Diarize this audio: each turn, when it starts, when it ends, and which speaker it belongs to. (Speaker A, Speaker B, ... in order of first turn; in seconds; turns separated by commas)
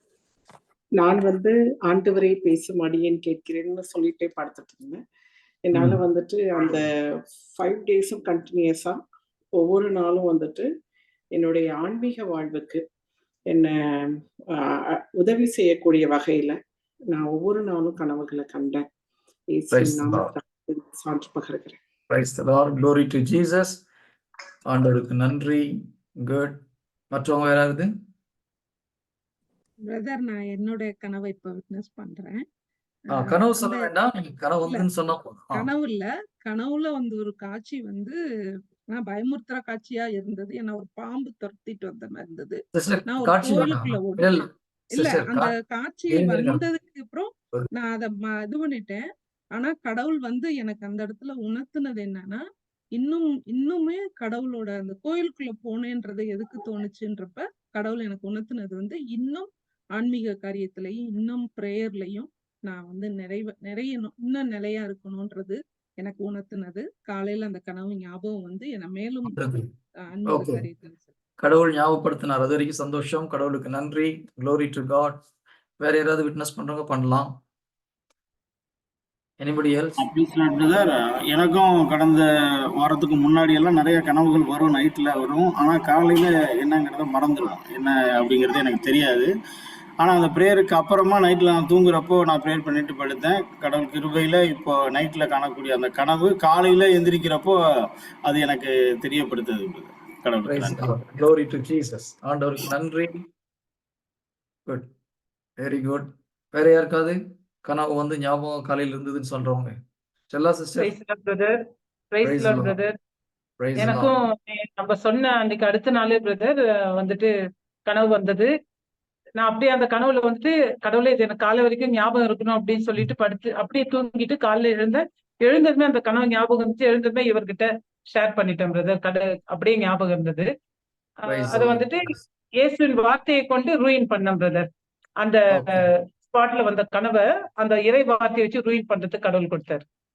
Speaker A: 1.0-5.0, Speaker A: 5.7-6.9, Speaker B: 5.7-6.0, Speaker A: 7.5-9.0, Speaker A: 9.6-10.7, Speaker A: 11.3-12.8, Speaker A: 13.5-16.6, Speaker A: 17.1-18.9, Speaker A: 19.5-21.8, Speaker B: 19.7-20.3, Speaker B: 22.1-23.8, Speaker B: 24.6-25.6, Speaker B: 26.2-26.6, Speaker B: 27.1-27.9, Speaker C: 29.8-32.4, Speaker C: 33.1-33.9, Speaker B: 33.1-35.6, Speaker C: 34.6-34.9, Speaker C: 35.5-38.2, Speaker C: 38.9-49.0, Speaker B: 42.8-45.5, Speaker B: 46.1-46.6, Speaker C: 49.5-52.4, Speaker C: 52.9-69.5, Speaker B: 69.3-69.6, Speaker C: 70.0-71.1, Speaker B: 70.3-70.6, Speaker B: 71.4-75.2, Speaker B: 75.8-77.3, Speaker B: 79.4-80.0, Speaker D: 80.0-89.3, Speaker D: 90.0-97.6, Speaker D: 98.2-100.9, Speaker B: 100.4-103.2, Speaker B: 105.6-109.7, Speaker B: 110.3-110.9, Speaker E: 110.8-111.5, Speaker E: 112.1-112.9, Speaker B: 112.2-112.8, Speaker B: 113.6-114.1, Speaker E: 113.8-117.3, Speaker E: 117.8-118.5, Speaker E: 119.4-130.5, Speaker E: 131.2-139.8, Speaker B: 131.3-131.9, Speaker B: 135.5-135.8